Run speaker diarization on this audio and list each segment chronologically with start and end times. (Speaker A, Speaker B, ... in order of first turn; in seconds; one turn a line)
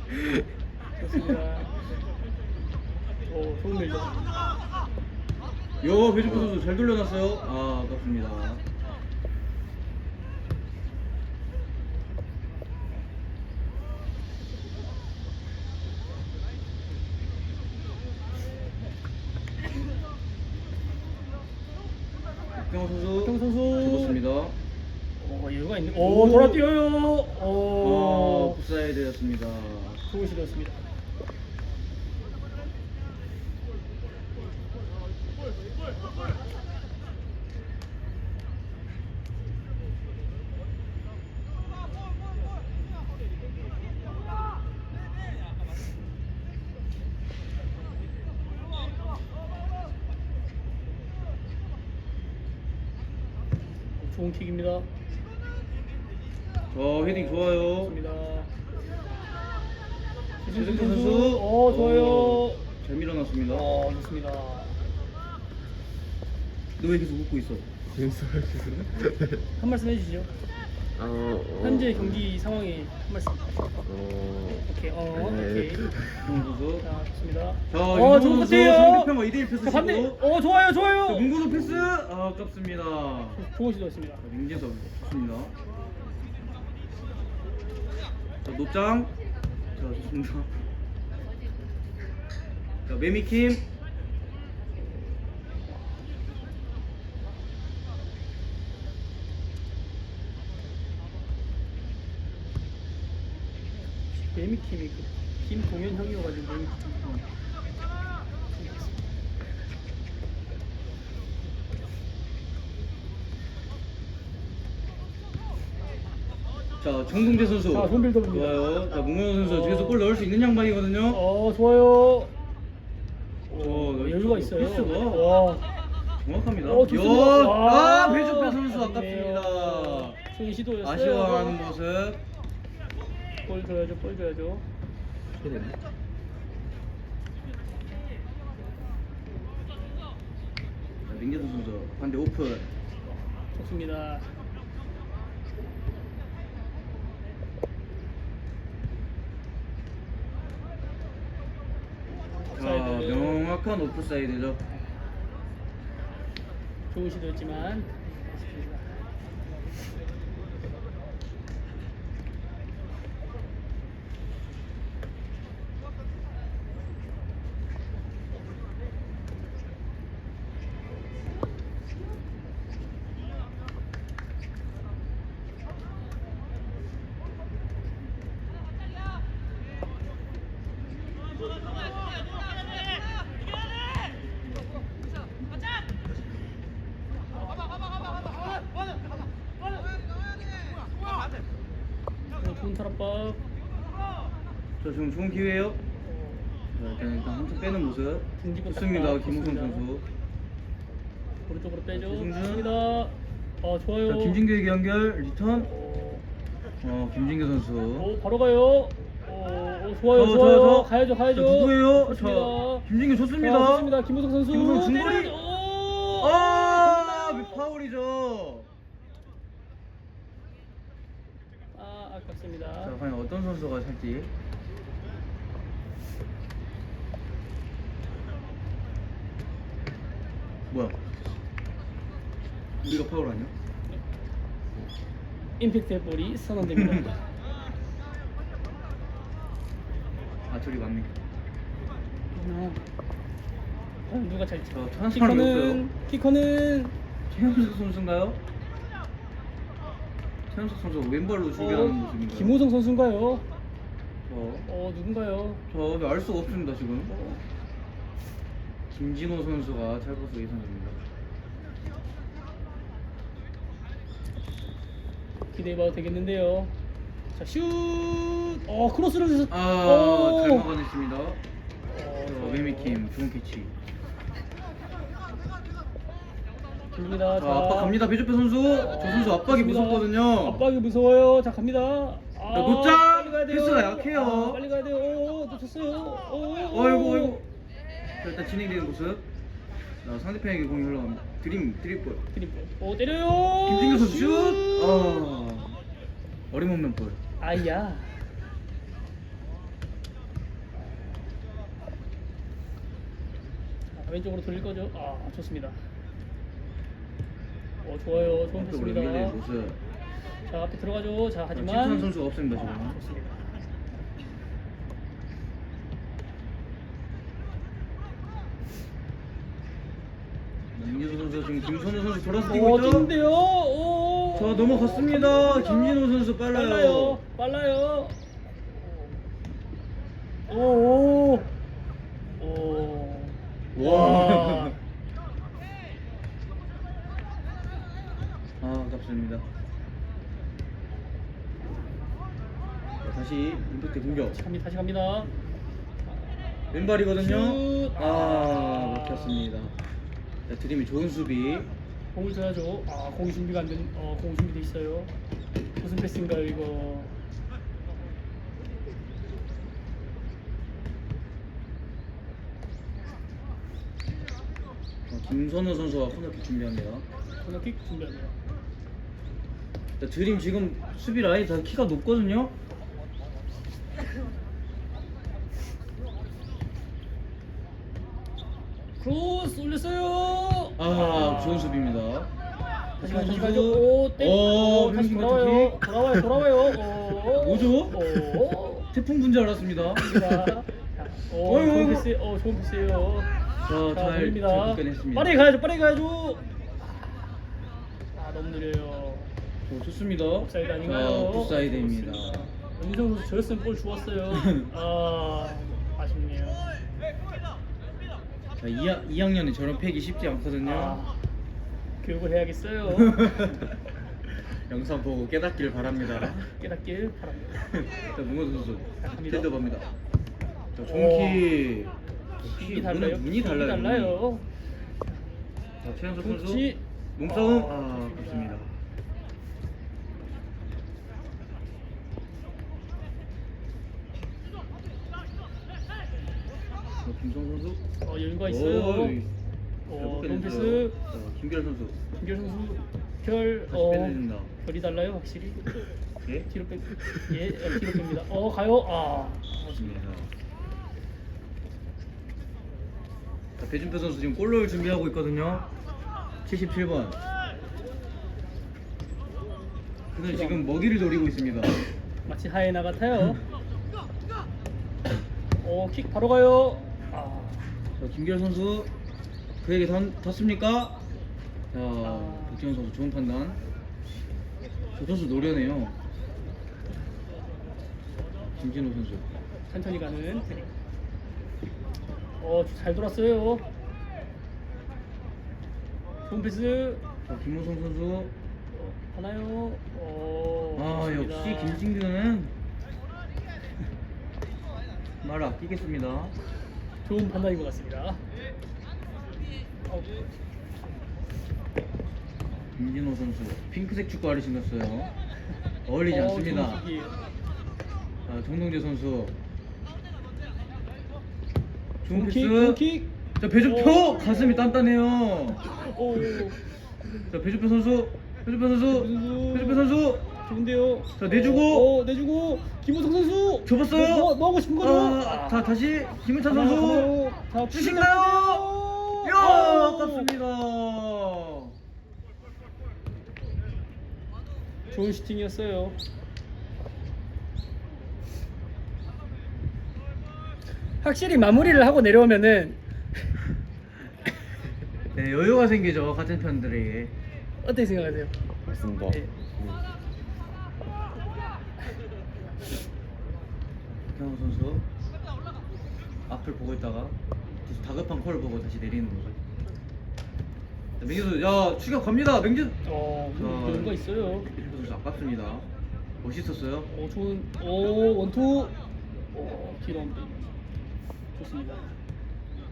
Speaker A: 1.0-1.8
Speaker A: 3.3-4.6
Speaker B: 5.8-8.6
Speaker B: 22.5-24.6
Speaker A: 23.2-24.2
Speaker A: 25.2-28.6
Speaker B: 25.9-26.6
Speaker B: 27.8-30.0
Speaker A: 30.1-30.8
Speaker A: 54.0-54.9
Speaker B: 56.7-57.9
Speaker A: 57.0-58.5
Speaker A: 60.4-62.6
Speaker B: 60.5-63.7
Speaker A: 63.5-64.8
Speaker B: 66.8-67.7
Speaker C: 67.9-69.2
Speaker A: 69.6-70.3
Speaker C: 70.9-72.3
Speaker A: 71.6-73.5
Speaker C: 73.8-76.0
Speaker A: 74.6-75.9
Speaker B: 76.2-76.9
Speaker A: 76.8-81.3
Speaker B: 77.7-80.2
Speaker B: 81.1-83.4
Speaker C: 81.5-81.9
Speaker A: 83.3-84.2
Speaker B: 84.2-85.5
Speaker B: 88.4-89.1
Speaker B: 89.7-90.5
Speaker B: 92.8-93.6
Speaker A: 95.7-95.9
Speaker A: 104.1-107.1
Speaker A: 108.5-108.9
Speaker B: 116.8-121.2
Speaker A: 117.7-120.0
Speaker A: 121.1-122.3
Speaker A: 123.5-125.7
Speaker B: 123.6-125.3
Speaker B: 126.2-130.2
Speaker A: 126.6-131.6
Speaker B: 130.8-132.2
Speaker A: 133.4-134.7
Speaker B: 135.4-135.8
Speaker B: 141.1-142.7
Speaker A: 143.1-144.3
Speaker A: 152.3-153.5
Speaker B: 152.5-154.6
Speaker A: 156.9-159.0
Speaker A: 187.3-187.9
Speaker A: 192.3-193.4
Speaker B: 194.8-195.8
Speaker A: 196.0-196.5
Speaker B: 196.8-200.0
Speaker A: 198.4-199.8
Speaker A: 201.5-204.4
Speaker B: 201.9-202.7
Speaker B: 204.1-205.7
Speaker A: 205.6-206.2
Speaker B: 206.8-208.1
Speaker A: 208.0-217.6
Speaker B: 210.1-213.9
Speaker B: 214.5-215.3
Speaker B: 216.2-218.7
Speaker A: 221.7-222.9
Speaker B: 222.8-224.3
Speaker B: 230.7-231.1
Speaker B: 232.8-233.5
Speaker A: 235.6-237.2
Speaker B: 240.5-241.2
Speaker A: 242.3-242.8
Speaker A: 244.1-246.9
Speaker B: 244.7-245.8
Speaker B: 247.3-248.4
Speaker B: 250.5-252.6
Speaker A: 251.6-253.4
Speaker B: 254.3-254.7
Speaker A: 254.7-255.6
Speaker B: 255.7-257.1
Speaker A: 257.1-257.4
Speaker B: 258.9-261.0
Speaker A: 265.5-266.7
Speaker A: 267.3-270.7
Speaker B: 269.5-271.4
Speaker A: 271.9-273.0
Speaker B: 272.2-273.7
Speaker A: 276.9-278.0
Speaker B: 277.4-280.6
Speaker A: 278.7-287.4
Speaker B: 282.5-284.6
Speaker B: 286.7-287.4
Speaker B: 288.2-289.2
Speaker B: 290.0-292.2
Speaker A: 292.3-295.3
Speaker B: 293.6-295.7
Speaker B: 296.5-297.2
Speaker A: 297.4-298.2
Speaker A: 303.9-305.8
Speaker A: 307.8-309.4
Speaker B: 308.1-309.8
Speaker A: 310.4-313.6
Speaker B: 311.5-313.0
Speaker B: 320.7-323.1
Speaker A: 322.5-328.2
Speaker B: 324.3-327.2
Speaker A: 328.7-329.1
Speaker A: 330.5-331.5
Speaker A: 332.4-334.8
Speaker B: 333.8-334.8
Speaker B: 338.6-339.4
Speaker B: 343.0-344.4
Speaker A: 344.1-345.3
Speaker B: 346.7-349.7
Speaker A: 346.9-349.5
Speaker B: 350.5-351.7
Speaker A: 352.1-355.1
Speaker A: 355.8-357.2
Speaker B: 365.1-367.1
Speaker A: 367.4-368.3
Speaker B: 370.0-372.6
Speaker A: 379.0-382.0
Speaker B: 380.8-382.3
Speaker B: 383.0-385.8
Speaker A: 383.0-388.9
Speaker B: 387.3-388.2
Speaker B: 388.9-390.5
Speaker A: 390.0-393.3
Speaker B: 391.4-392.1
Speaker B: 393.6-395.3
Speaker A: 393.9-396.5
Speaker A: 398.1-399.3
Speaker B: 399.7-402.5
Speaker A: 400.4-406.6
Speaker B: 408.6-411.0
Speaker A: 410.6-411.2
Speaker A: 412.0-413.5
Speaker B: 413.1-413.6
Speaker B: 414.3-416.5
Speaker A: 416.5-417.8
Speaker B: 417.8-419.9
Speaker A: 419.0-419.5
Speaker B: 420.8-424.2
Speaker A: 420.8-421.6
Speaker A: 422.4-425.2
Speaker B: 425.8-428.7
Speaker A: 426.2-428.7
Speaker B: 437.0-437.8
Speaker A: 438.0-439.2
Speaker B: 438.4-439.3
Speaker A: 439.9-440.9
Speaker B: 439.9-442.0
Speaker A: 442.2-445.7
Speaker B: 443.7-444.5
Speaker A: 446.5-450.0
Speaker B: 449.8-450.3
Speaker B: 453.6-455.7
Speaker B: 456.4-457.2
Speaker B: 460.1-461.8
Speaker A: 460.3-460.7
Speaker A: 462.2-463.4
Speaker A: 465.6-467.7
Speaker B: 468.0-468.9
Speaker B: 469.6-471.0
Speaker B: 471.7-473.6
Speaker A: 472.0-472.6
Speaker B: 474.9-476.0
Speaker B: 478.6-479.2
Speaker A: 479.7-480.7
Speaker A: 482.4-483.7
Speaker A: 486.2-487.0
Speaker B: 487.3-488.3
Speaker A: 488.7-491.8
Speaker B: 490.8-492.5
Speaker B: 495.2-496.3
Speaker A: 497.0-498.2
Speaker A: 499.9-500.2
Speaker B: 502.7-505.1
Speaker B: 505.9-506.8
Speaker A: 506.1-507.1
Speaker B: 508.2-509.4
Speaker B: 512.0-512.8
Speaker A: 512.1-514.9
Speaker B: 513.4-515.8
Speaker A: 515.7-516.6
Speaker B: 517.2-520.2
Speaker A: 518.9-525.7
Speaker B: 521.2-521.9
Speaker B: 523.6-527.1
Speaker A: 526.5-530.3
Speaker B: 527.7-531.8
Speaker A: 534.9-536.0
Speaker A: 541.0-543.3
Speaker B: 545.1-547.1
Speaker A: 547.6-548.3
Speaker C: 548.6-549.8
Speaker B: 554.0-554.8
Speaker B: 556.3-559.4
Speaker B: 561.0-562.8
Speaker A: 562.8-564.5
Speaker B: 563.3-565.6
Speaker B: 566.2-566.9
Speaker A: 566.9-568.7
Speaker A: 569.3-570.5
Speaker A: 571.4-572.0